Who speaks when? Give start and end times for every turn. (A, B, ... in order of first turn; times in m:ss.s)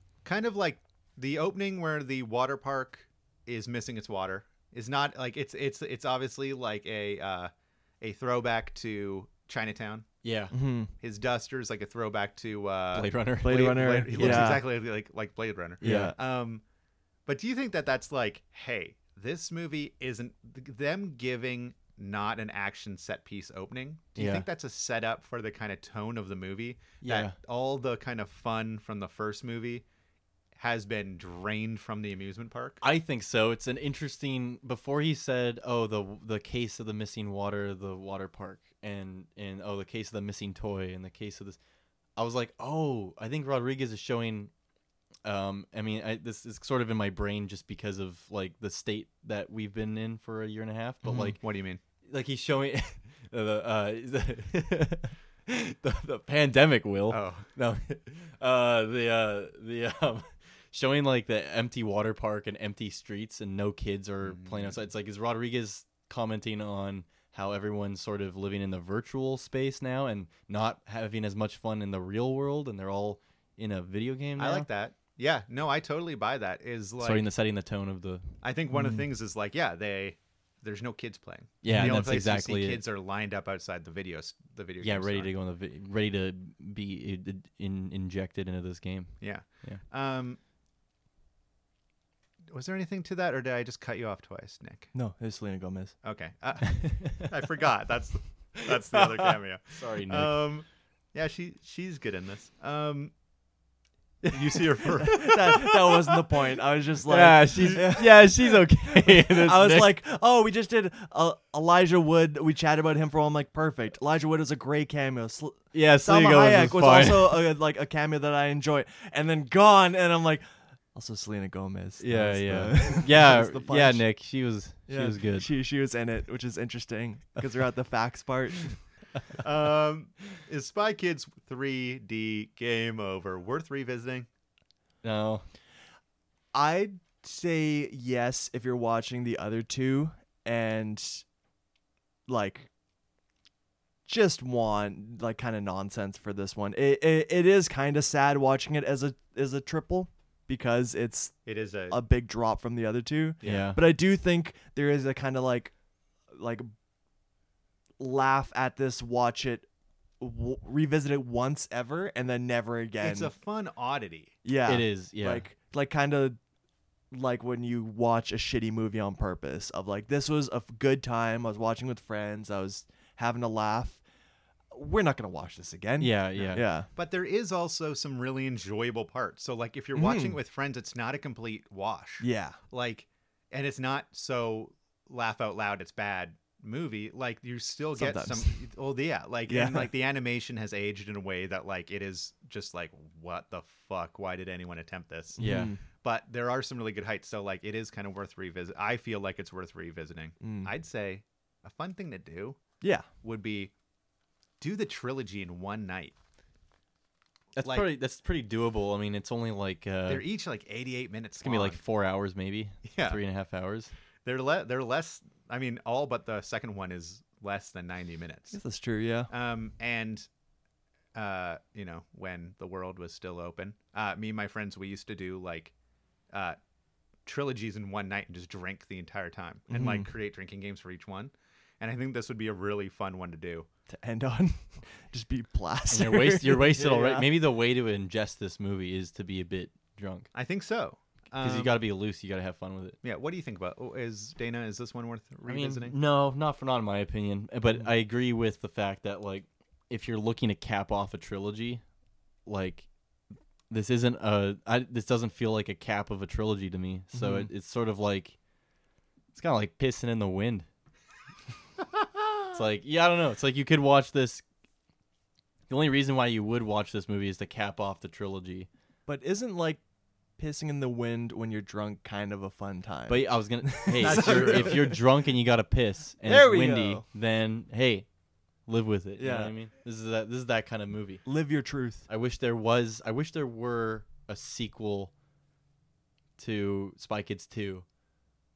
0:00.2-0:10.1 A
0:10.2-0:10.5 B
0:10.5-0:10.9 C
0:11.0-0:16.6 A
0:12.9-0:14.6 B
0:13.4-0:14.7 C
0:15.8-0:16.1 B
0:15.8-0:16.2 C
0:17.2-0:29.8 A
0:24.2-0:24.4 B
0:27.0-0:27.3 B
0:30.6-0:32.8 A
0:32.8-0:41.6 B
0:42.2-0:44.5 B
0:45.2-0:51.4 B
0:51.0-0:51.8 A
0:51.1-0:51.3 C
0:52.1-1:14.7 B
0:57.1-0:57.5 A
1:04.2-1:04.8 A
1:14.4-1:17.3 A
1:17.0-1:18.2 B
1:18.4-1:25.3 A
1:18.7-1:19.0 C
1:21.6-1:22.8 B
1:21.7-1:22.1 C
1:24.8-1:29.8 B
1:29.2-1:30.4 A
1:32.5-1:34.9 A
1:34.9-1:35.9 C
1:36.0-1:43.1 A
1:36.8-1:37.2 B
1:39.7-1:40.4 B
1:44.3-1:45.4 A
1:44.3-1:45.7 B
1:45.0-2:04.1 C
1:47.1-1:50.0 B
1:55.7-1:57.5 B
2:02.0-2:05.5 B
2:04.9-2:08.8 C
2:09.4-2:14.3 A
2:15.0-2:15.4 B
2:16.5-2:21.2 C
2:22.3-2:22.7 C
2:24.0-2:35.7 C
2:31.4-2:32.0 A
2:33.4-2:33.8 A
2:33.4-2:33.8 B
2:36.3-2:36.7 C
2:38.0-2:39.7 C
2:40.2-2:43.3 C
2:43.0-2:44.3 A
2:44.4-2:46.4 C
2:44.7-2:45.4 B
2:47.1-2:54.0 C
2:54.7-2:56.9 C
2:56.0-2:56.6 B
2:56.3-3:22.6 A
2:59.9-3:00.4 C
3:02.2-3:02.6 C
3:08.0-3:08.6 C
3:09.5-3:09.9 C
3:15.4-3:15.8 C
3:15.4-3:15.7 B
3:20.4-3:20.7 C
3:22.8-3:23.1 C
3:23.2-3:23.7 A
3:24.6-3:26.1 A
3:27.5-3:30.2 B
3:27.6-3:27.9 A
3:30.1-3:31.8 A
3:31.4-3:33.9 B
3:32.8-3:33.2 A
3:34.2-3:38.6 A
3:38.5-3:39.3 C
3:39.3-3:40.3 A
3:41.1-3:45.7 A
3:46.3-3:46.6 A
3:47.2-3:53.7 A
3:49.7-3:50.1 C
3:53.9-3:57.4 C
3:55.9-4:00.3 B
4:00.3-4:01.8 A
4:01.4-4:03.0 B
4:03.0-4:06.0 A
4:05.4-4:11.8 B
4:12.4-4:12.9 B
4:13.7-4:18.4 B
4:17.1-4:17.5 C
4:19.3-4:20.7 B
4:22.5-4:24.4 B
4:25.7-4:28.7 B
4:29.0-4:29.8 C
4:30.4-4:35.0 C
4:33.1-4:38.0 B
4:34.0-4:34.9 A
4:36.2-4:37.0 C
4:38.6-4:41.2 B
4:39.2-4:39.5 C
4:41.2-4:42.0 C
4:42.1-4:45.1 B
4:46.4-4:47.8 B